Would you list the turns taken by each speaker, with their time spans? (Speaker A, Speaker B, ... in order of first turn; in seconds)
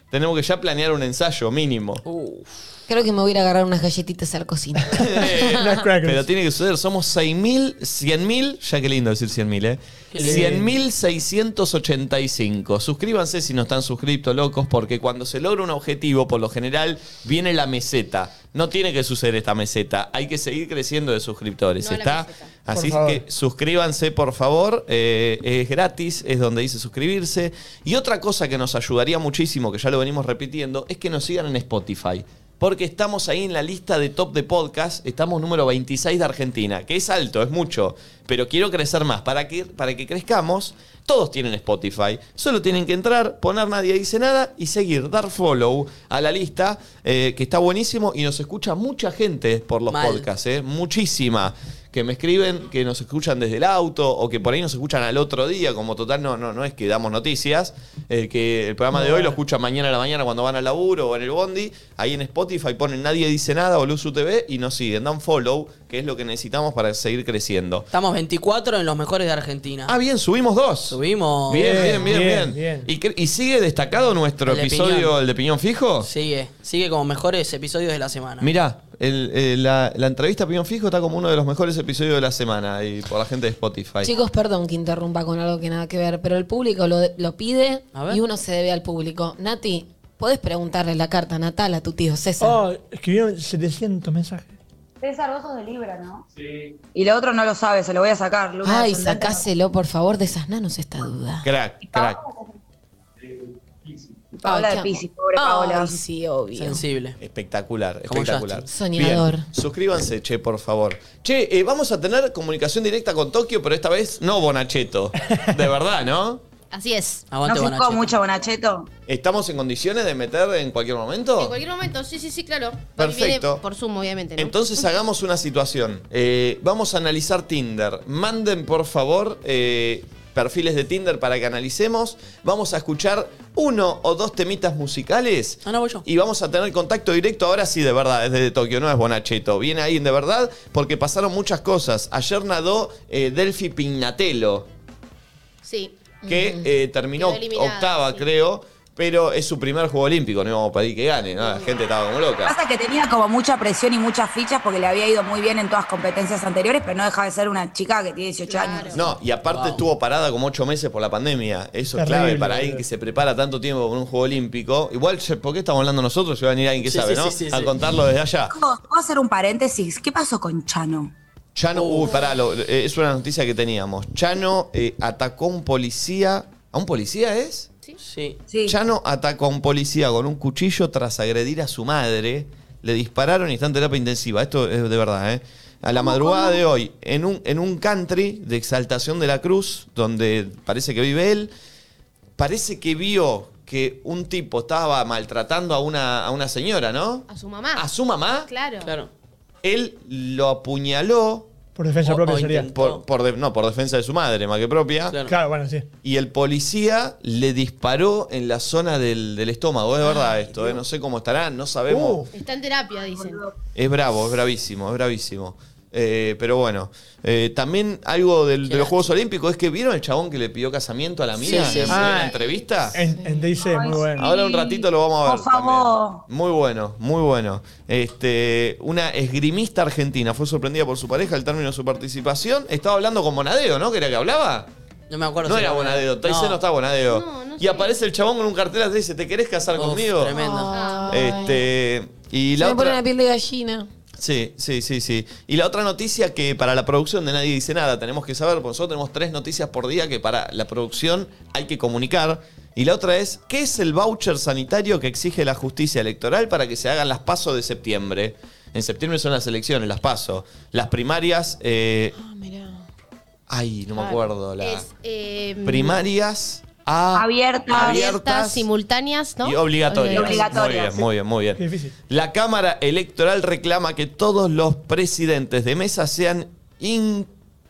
Speaker A: 0.1-2.0, 4.9-67.9, 69.9-76.1, 78.4-84.1, 101.4-102.2, 107.2-116.4, 119.1-121.6, 123.0-123.6, 124.4-144.7, 146.3-152.6, 158.9-168.5, 171.6-177.7, 178.7-191.5, 192.4-198.5, 199.6-201.5, 202.8-205.2, 206.0-212.2, 213.8-223.0, 224.2-234.7, 235.4-240.3, 241.1-243.0, 244.2-262.2, 263.5-264.9, 265.6-268.7, 269.4-277.3
Speaker B: 2.0-2.6, 10.1-10.6, 49.9-50.3, 67.9-70.0, 70.9-72.1, 74.5-75.1, 76.0-78.5, 87.9-88.2, 106.6-107.2, 108.1-108.6, 117.3-118.2, 135.7-136.1, 159.5-159.8, 166.8-167.8, 171.7-172.1, 178.0-178.4, 198.8-199.1, 202.1-203.0, 210.2-210.8, 218.7-219.1, 221.4-222.1, 235.1-236.6, 239.8-240.8
Speaker C: 2.9-5.6, 84.0-92.6, 98.6-101.5, 104.4-106.8, 108.7-109.5, 146.3-146.6, 223.1-223.5, 240.3-241.6, 242.6-243.9, 262.2-262.8
Speaker D: 5.2-6.2, 10.2-10.7, 22.7-23.2, 71.5-72.9, 92.4-94.5, 161.9-162.8, 201.8-202.7, 205.3-205.9, 211.9-212.3, 221.9-222.3, 222.9-224.3, 271.6-271.9
Speaker E: 21.8-22.6, 116.7-117.3, 121.4-124.9, 145.6-146.2, 147.1-148.3, 151.4-151.8, 158.5-159.0, 197.3-197.9, 198.5-198.9, 212.3-213.4, 221.5-222.7, 237.0-238.0, 240.7-241.4, 264.6-266.0, 267.7-270.5
Speaker F: 95.0-96.3, 97.0-99.5, 101.8-102.5, 104.4-106.0, 117.4-118.9, 152.4-159.0, 168.5-171.1, 178.5-178.8, 186.0-186.6, 213.1-213.5, 223.6-226.2, 267.1-268.1, 270.1-271.1